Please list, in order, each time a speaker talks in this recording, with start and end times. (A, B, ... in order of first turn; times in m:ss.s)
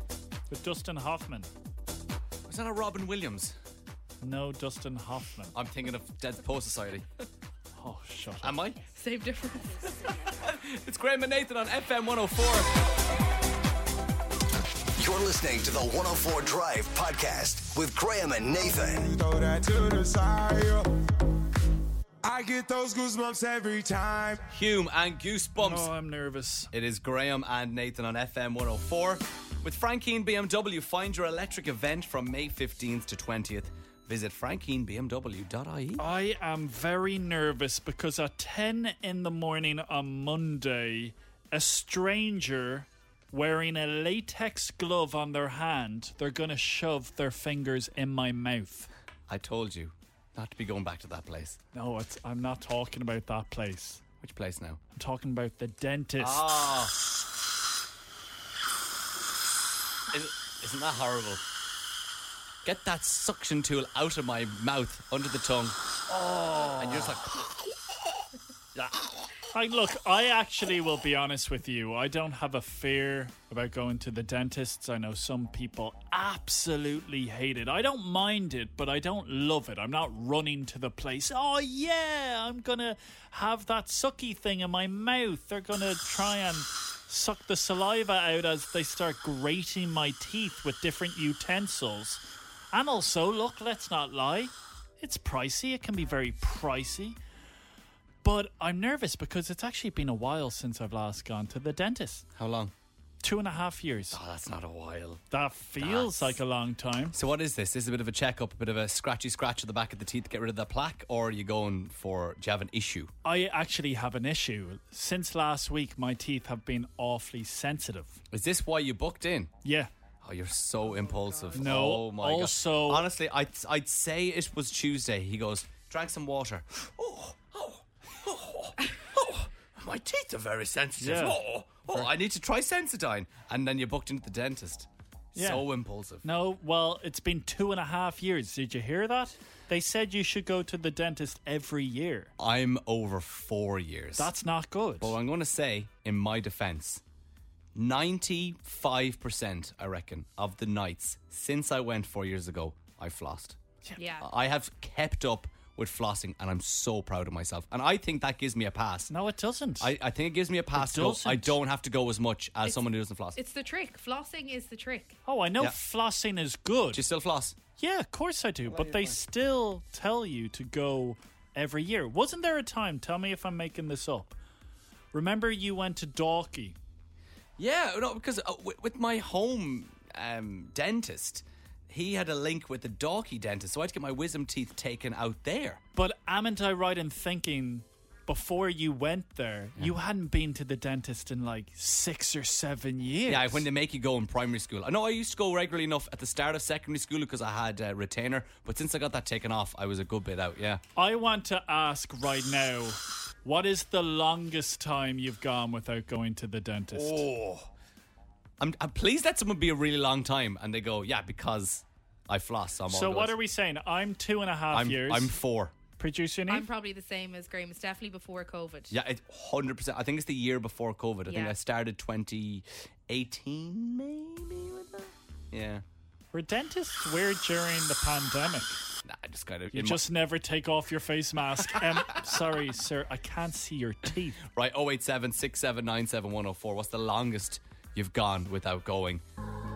0:00.5-0:01.5 A
0:02.5-0:03.6 B
0:04.2-0:05.5 A
0:05.5-0:07.0 B
0:07.7-0:08.6 A
0:08.4-0:08.8 B
0:08.9-0:09.9 C
0:10.3-0:12.7 B
0:15.0-0:19.1 D
0:18.9-0:20.8 E
0:22.2-0:24.4 E
0:24.5-0:25.9 B
0:25.6-0:26.7 A
0:26.7-0:36.0 B
0:36.0-0:48.9 A
0:49.3-0:51.6 B
0:51.7-0:54.0 A
0:54.2-0:54.8 B
0:54.9-0:56.5 A
0:56.2-0:56.9 B
1:00.1-1:01.4 B
1:02.6-1:05.8 B
1:06.1-1:07.2 A
1:06.8-1:07.3 B
1:09.5-1:37.2 A
1:38.2-1:42.2 A
1:42.3-1:42.7 B
1:43.2-1:44.2 A
1:44.1-1:45.2 B
1:45.3-1:47.2 A
1:45.8-1:46.4 B
1:47.1-1:53.1 B
1:53.2-1:58.2 A
1:58.3-1:59.6 B
1:59.6-1:59.9 A
2:00.2-2:16.2 B
2:00.9-2:01.7 C
2:01.6-2:03.0 A
2:11.0-2:12.1 A
2:15.3-2:15.6 A
2:16.2-2:22.3 A
2:22.4-2:24.3 B
2:24.2-2:25.2 A
2:25.0-2:27.0 B
2:27.7-2:33.6 B
2:34.0-2:34.2 C
2:34.2-2:39.1 B
2:39.1-2:39.9 A
2:39.8-2:43.4 B
2:40.7-2:41.6 A
2:43.3-2:45.2 C
2:45.2-2:47.0 A
2:46.9-2:47.6 B
2:47.8-2:54.4 A
2:48.6-2:49.2 B
2:55.1-2:56.8 A
2:57.6-3:05.8 B
3:05.9-3:13.6 A
3:13.3-3:20.8 B
3:21.0-3:27.2 A
3:26.9-3:27.7 B
3:28.6-3:33.3 B
3:32.9-3:35.4 A
3:34.7-3:35.7 B
3:36.0-3:36.7 A
3:36.5-3:39.0 C
3:38.9-3:45.8 B
3:41.3-3:41.6 C
3:46.3-3:48.8 A
3:49.0-3:50.0 B
3:49.7-3:54.4 A
3:54.5-3:59.2 B